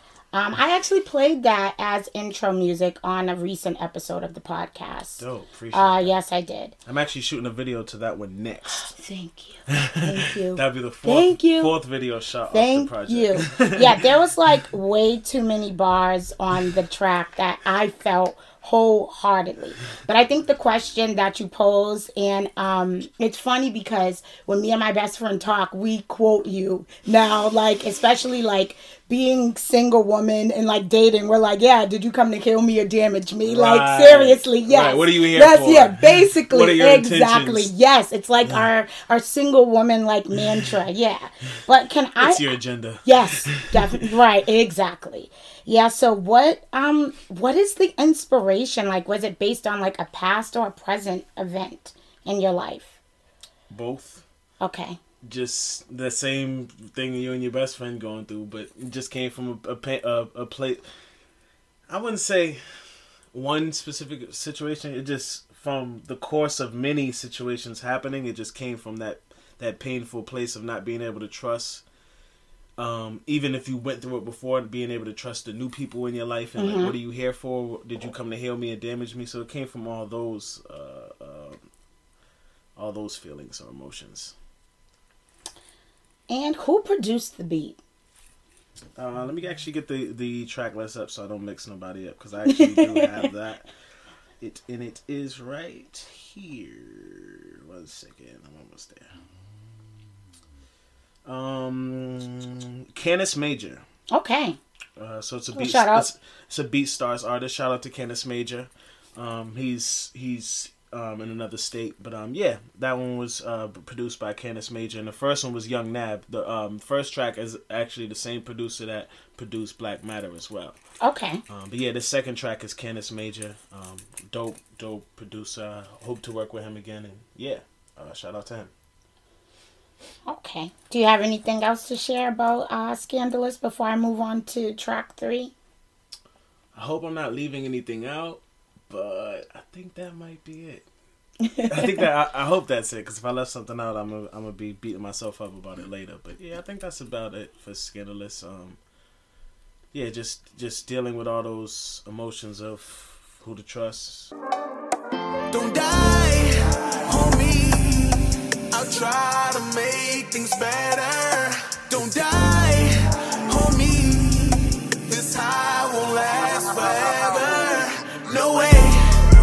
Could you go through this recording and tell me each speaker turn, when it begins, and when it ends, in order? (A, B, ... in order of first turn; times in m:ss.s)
0:00.3-0:06.8 A
0:05.2-0:06.1 B
0:06.9-0:08.9 B
0:08.8-0:11.7 A
0:09.7-0:13.9 B
0:12.5-0:42.5 A
0:33.4-0:37.7 B
0:42.2-0:44.0 B
0:43.0-0:53.0 A
0:53.7-0:54.2 B
0:54.6-0:55.0 A
0:55.2-1:00.8 B
1:01.9-1:02.6 B
1:03.3-1:11.8 B
1:12.8-1:21.6 B
1:16.6-1:16.9 A
1:22.8-1:24.3 B
1:26.3-1:27.8 A
1:29.0-1:33.6 B
1:32.5-1:33.2 A
1:34.4-1:39.1 B
1:41.2-1:43.8 B
1:44.1-1:44.6 A
1:45.0-2:00.8 B
1:45.5-1:46.1 A
2:01.0-2:01.4 A
2:01.5-2:08.7 B
2:10.2-2:15.5 A
2:16.8-2:20.8 B
2:21.4-2:21.9 A
2:21.6-2:28.8 B
2:29.9-2:34.3 B
2:35.5-2:49.1 C